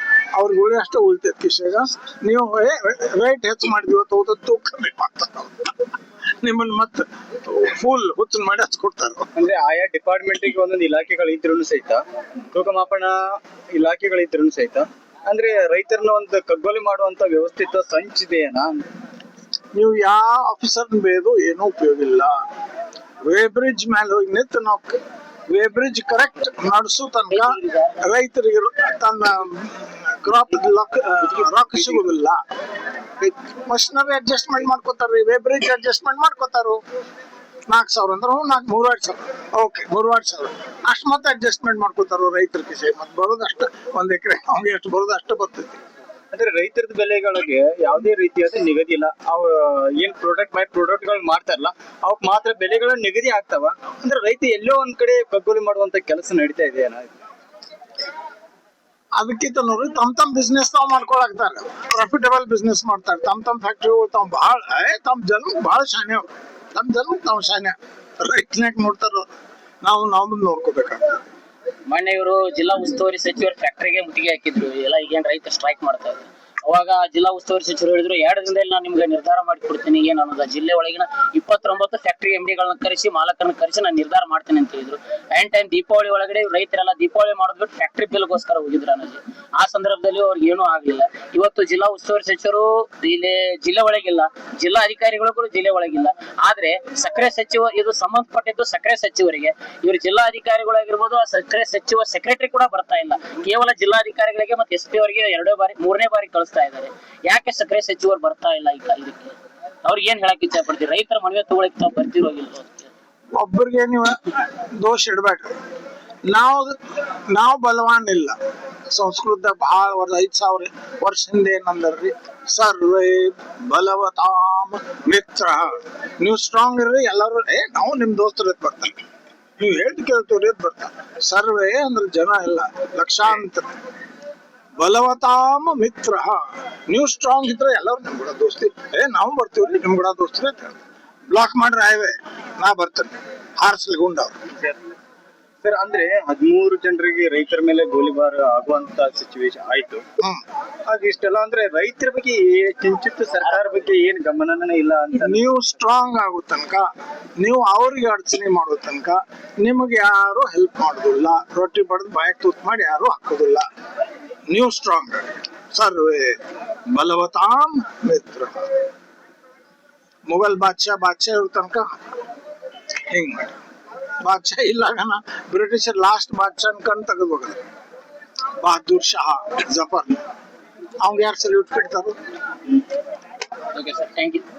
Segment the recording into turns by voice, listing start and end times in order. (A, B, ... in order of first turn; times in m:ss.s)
0:00.3-0:05.7 A
0:06.4-0:09.3 A
0:09.4-0:18.8 B
0:19.8-0:22.4 A
0:23.3-0:25.0 A
0:25.5-0:32.4 A
0:27.3-0:28.0 C
0:33.4-0:36.8 A
0:37.7-0:45.8 A
0:46.3-0:57.1 B
0:59.2-1:09.3 A
1:09.8-1:11.2 A
1:11.9-1:52.9 C
1:53.4-1:55.6 A
1:56.3-1:56.8 A
1:57.3-1:58.4 A
1:58.9-2:09.0 A
2:09.6-2:13.7 A
2:14.8-2:20.8 A
2:21.3-2:24.4 A
2:25.6-2:30.0 B
2:30.2-2:30.4 A
2:30.9-2:35.4 B
2:35.2-2:36.9 A
2:37.4-2:43.6 A
2:44.5-2:48.7 A
2:50.3-2:51.9 A
2:53.1-2:53.6 A
2:54.2-2:57.6 A
2:58.6-3:00.2 A
3:01.0-3:02.2 A
3:03.7-3:04.4 C